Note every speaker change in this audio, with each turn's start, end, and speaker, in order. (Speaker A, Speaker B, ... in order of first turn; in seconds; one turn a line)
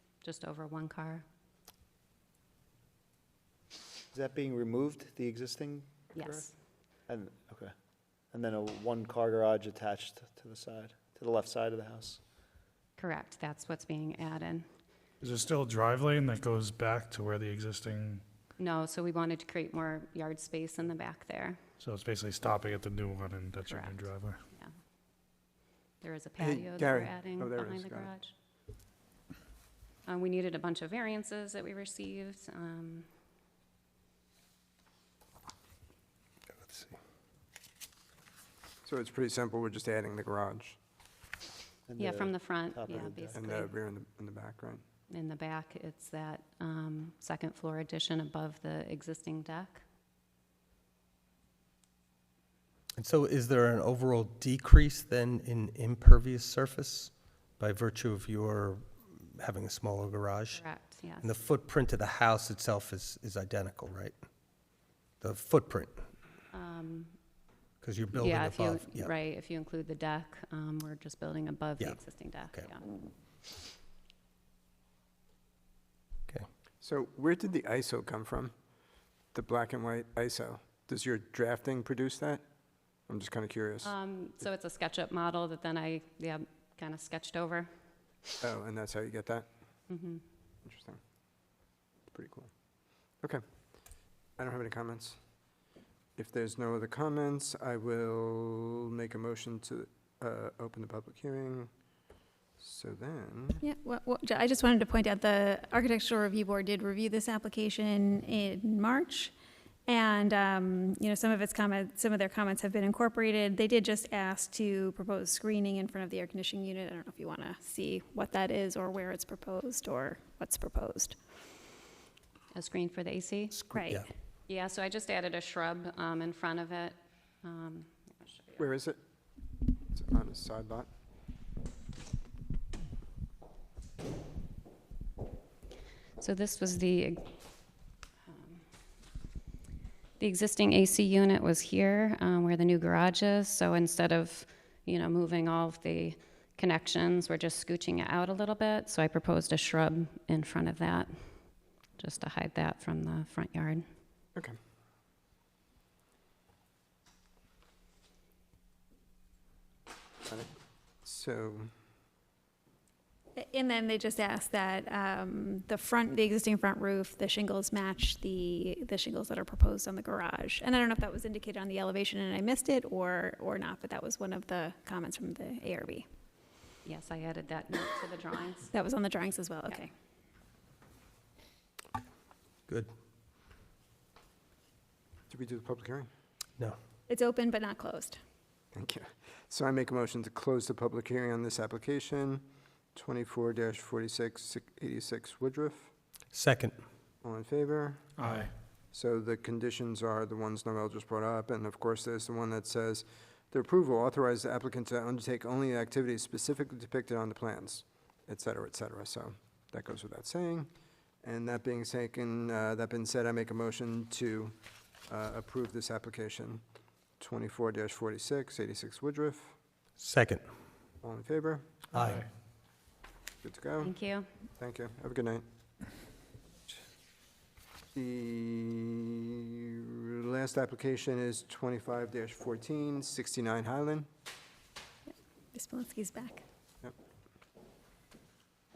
Speaker A: 0.2-1.2
Speaker B: 4.1-6.5
Speaker A: 6.1-6.5
Speaker B: 7.0-12.2
Speaker A: 12.9-14.7
Speaker C: 15.2-18.2
Speaker A: 18.6-21.6
Speaker C: 21.8-24.4
Speaker A: 23.6-24.7
Speaker A: 26.0-28.3
Speaker D: 26.4-28.1
Speaker A: 30.0-33.1
Speaker E: 36.6-36.9
Speaker D: 38.8-40.8
Speaker B: 41.9-43.4
Speaker A: 42.0-43.7
Speaker D: 43.3-44.8
Speaker A: 45.1-49.8
Speaker E: 53.0-64.2
Speaker A: 60.5-61.4
Speaker E: 65.2-65.9
Speaker A: 66.5-67.2
Speaker E: 67.8-69.1
Speaker A: 68.1-73.0
Speaker E: 71.8-72.7
Speaker D: 76.8-78.5
Speaker D: 79.3-82.5
Speaker D: 83.0-83.9
Speaker A: 83.8-87.7
Speaker D: 88.4-89.5
Speaker A: 89.9-90.2
Speaker D: 90.6-91.0
Speaker D: 92.1-92.5
Speaker D: 93.1-93.4
Speaker D: 94.3-95.2
Speaker D: 96.2-101.7
Speaker D: 102.6-103.6
Speaker F: 103.6-109.3
Speaker F: 109.9-121.2
Speaker A: 122.5-123.6
Speaker E: 123.5-124.1
Speaker F: 123.7-124.0
Speaker A: 124.5-128.7
Speaker D: 128.6-129.0
Speaker D: 129.9-130.9
Speaker A: 136.2-137.3
Speaker A: 138.3-138.6
Speaker A: 140.2-153.8
Speaker D: 160.2-161.7
Speaker F: 163.3-176.1
Speaker A: 176.8-178.7
Speaker F: 178.7-179.9
Speaker D: 185.3-186.1
Speaker F: 187.1-188.2
Speaker D: 188.7-195.9
Speaker E: 196.3-196.8
Speaker D: 197.2-210.7
Speaker C: 198.2-198.5
Speaker D: 211.2-214.6
Speaker D: 215.1-216.6
Speaker D: 217.2-219.5
Speaker E: 220.0-220.4
Speaker D: 221.0-221.7
Speaker E: 221.9-222.2
Speaker C: 221.9-222.3
Speaker D: 223.4-223.9
Speaker A: 223.8-224.3
Speaker D: 224.6-225.4
Speaker D: 227.9-229.2
Speaker D: 230.0-234.1
Speaker F: 235.5-236.4